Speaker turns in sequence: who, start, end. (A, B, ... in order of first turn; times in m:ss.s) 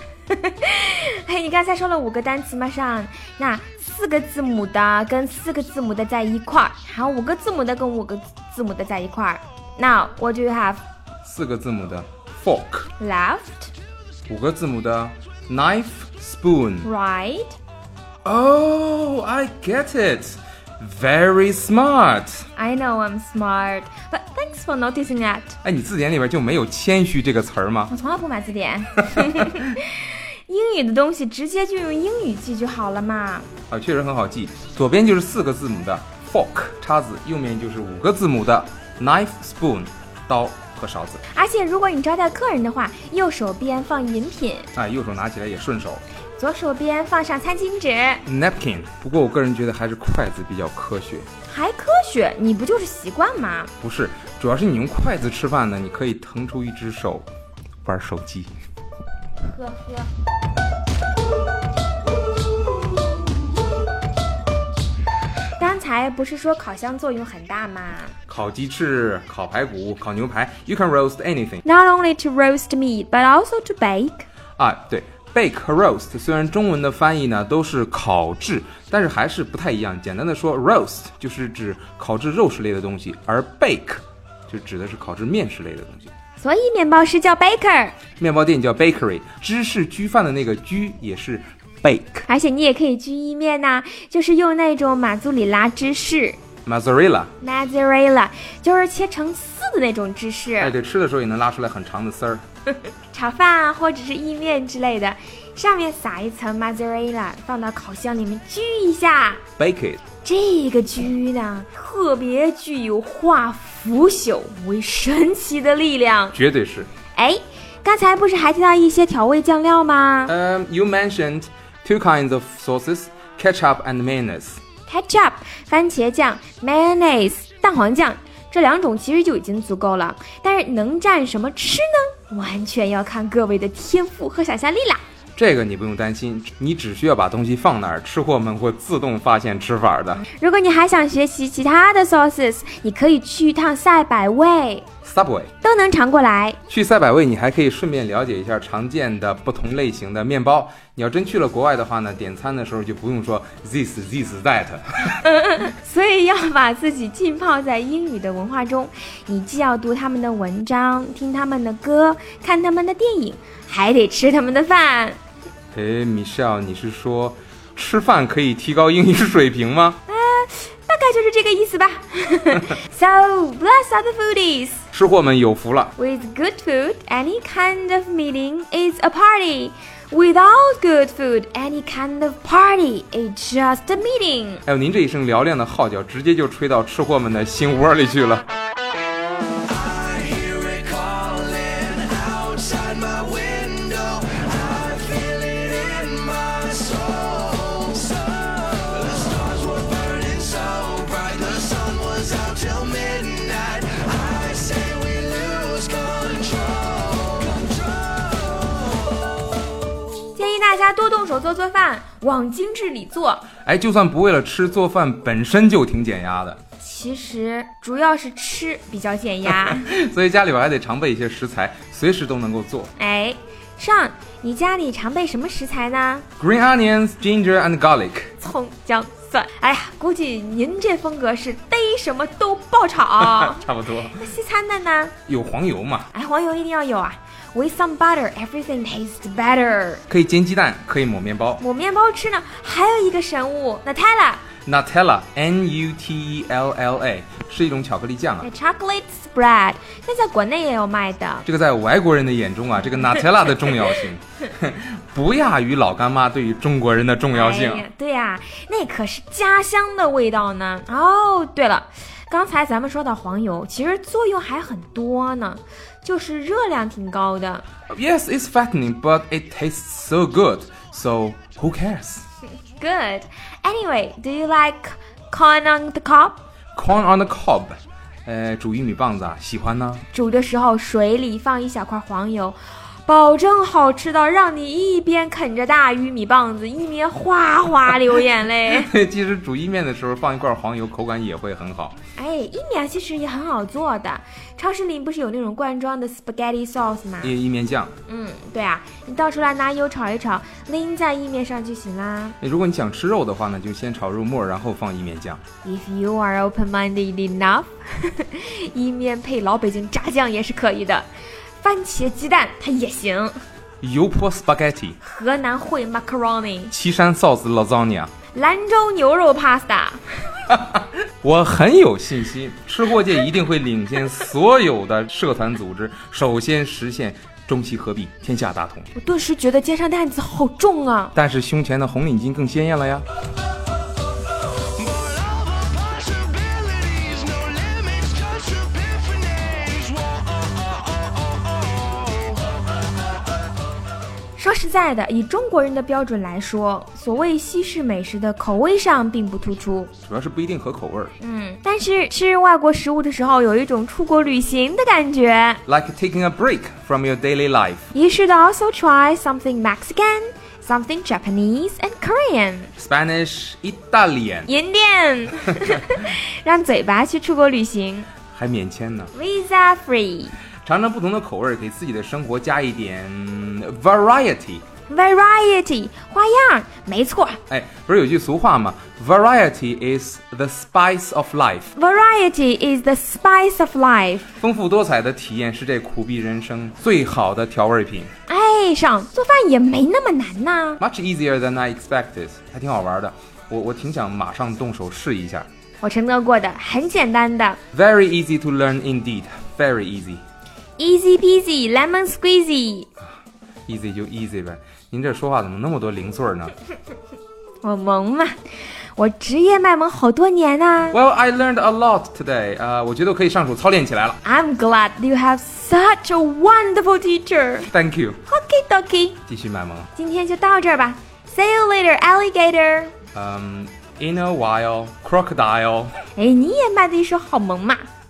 0:00.3-0:10.8 A
0:11.2-0:12.9 B
0:13.0-0:13.7 A
0:14.3-0:16.9 B
0:16.8-0:17.6 A
0:18.2-0:22.5 B
0:22.6-0:25.6 A
0:25.6-0:27.9 B
0:27.9-0:33.5 A
0:33.7-0:41.2 B
0:41.3-0:44.7 A
0:44.8-0:46.0 B
0:46.4-0:48.2 A
0:48.3-0:51.3 B
0:51.5-0:53.7 A
0:53.8-0:57.3 B
0:57.8-0:58.5 B
0:59.4-1:00.1 A
1:05.6-1:08.2 A
1:08.3-1:11.6 B
1:11.6-1:14.3 A
1:14.6-1:26.1 B
1:26.4-1:28.0 A
1:28.2-1:32.3 B
1:32.3-1:36.4 A
1:36.7-1:37.3 B
1:37.4-1:40.7 A
1:40.6-1:42.4 B
1:42.7-1:49.4 A
1:49.6-1:50.0 B
1:50.2-1:56.4 A
1:56.3-1:56.9 B
1:57.2-2:00.3 A
2:00.3-2:04.6 B
2:04.9-2:15.0 A
2:15.4-2:20.2 B
2:20.2-2:24.9 A
2:25.0-2:25.5 B
2:25.6-2:26.6 A
2:26.7-2:35.2 B
2:35.2-2:45.2 A
2:45.7-2:50.0 B
2:50.1-2:54.8 A
2:54.9-2:55.9 B
2:56.0-3:04.6 A
3:04.7-3:08.4 B
3:10.0-3:18.0 C
3:19.7-3:26.4 C
3:30.3-3:33.5 A
3:33.6-3:36.6 B
3:36.8-3:39.9 A
3:39.5-3:42.9 B
3:43.0-3:46.3 A
3:46.4-3:48.3 B
3:48.4-3:55.1 A
3:53.2-3:54.2 B
3:55.3-3:56.1 B
3:56.1-4:00.0 A
4:00.1-4:01.6 B
4:01.6-4:04.4 A
4:04.6-4:08.5 B
4:08.4-4:11.4 A
4:11.4-4:17.9 B
4:17.3-4:27.6 A
4:27.9-4:32.2 B
4:32.8-4:36.4 A
4:36.8-4:40.0 B
4:40.1-4:48.9 A
4:48.7-4:52.0 B
4:52.2-4:57.4 A
4:57.2-4:57.9 B
4:58.1-5:02.4 A
5:02.4-5:05.4 B
5:05.6-5:11.1 A
5:11.6-5:13.4 A
5:13.8-5:15.0 B
5:15.0-5:16.7 A
5:16.7-5:18.1 B
5:18.3-5:20.3 A
5:20.5-5:28.9 B
5:29.0-5:31.2 A
5:31.2-5:33.1 B
5:36.0-5:39.8 C
5:44.4-5:49.9 A
5:50.0-5:51.1 B
5:51.2-5:55.6 A
5:55.7-5:57.9 B
5:57.9-6:02.7 A
6:02.8-6:04.5 B
6:04.5-6:08.1 A
6:08.3-6:09.1 B
6:09.1-6:10.4 A
6:10.6-6:14.6 B
6:14.9-6:17.4 A
6:17.5-6:21.7 B
6:21.8-6:24.3 A
6:24.4-6:28.1 B
6:28.3-6:30.8 A
6:30.8-6:35.5 B
6:35.8-6:37.6 A
6:37.7-6:40.2 B
6:40.8-6:42.9 A
6:43.7-6:46.5 B
6:47.6-6:51.0 A
6:50.9-6:54.2 B
6:54.2-6:57.7 A
6:57.7-6:58.2 B
6:58.3-6:59.2 A
6:59.3-6:59.9 B
7:00.0-7:02.9 A
7:03.1-7:06.0 B
7:06.2-7:07.9 A